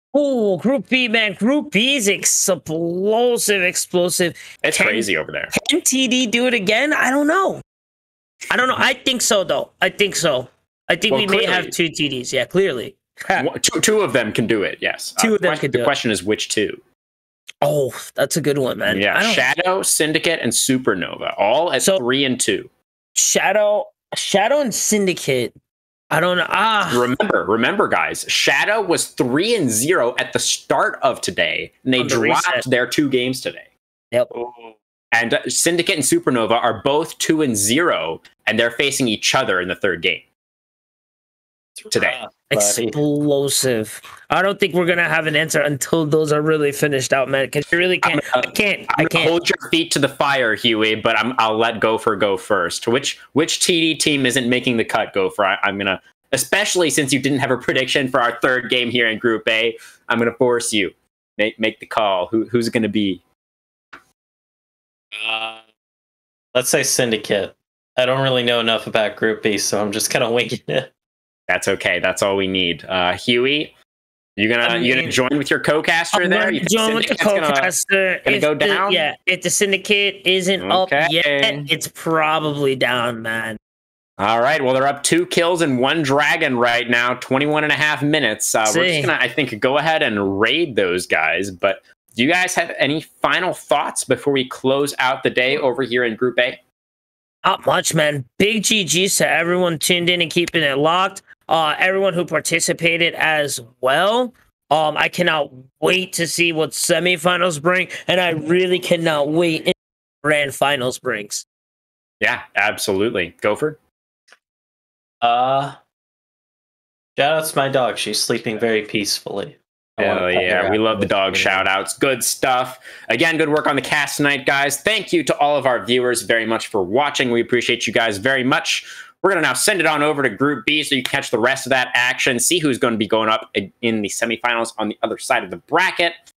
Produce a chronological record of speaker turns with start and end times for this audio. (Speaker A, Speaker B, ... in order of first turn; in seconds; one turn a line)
Speaker A: 0.1-7.6
Speaker B: 4.6-5.5
Speaker A: 8.5-13.5
Speaker B: 11.1-11.7
Speaker B: 13.3-16.8
Speaker A: 15.2-15.9
Speaker A: 17.6-19.5
Speaker B: 18.9-22.7
Speaker A: 23.1-25.5
Speaker A: 26.1-27.1
Speaker B: 26.9-33.7
Speaker A: 32.0-32.6
Speaker C: 34.3-34.7
Speaker B: 35.1-40.2
Speaker C: 41.8-43.0
Speaker B: 41.9-42.2
Speaker A: 42.5-49.3
Speaker B: 48.0-63.2
Speaker C: 65.1-65.6
Speaker C: 66.5-70.9
Speaker B: 71.5-73.7
Speaker B: 74.4-77.7
Speaker C: 74.6-75.1
Speaker A: 76.1-83.6
Speaker B: 78.2-79.0
Speaker B: 80.6-81.7
Speaker B: 84.2-96.6
Speaker A: 88.6-89.1
Speaker A: 97.4-111.5
Speaker B: 112.2-113.8
Speaker C: 115.2-115.8
Speaker C: 117.2-121.7
Speaker B: 120.0-136.1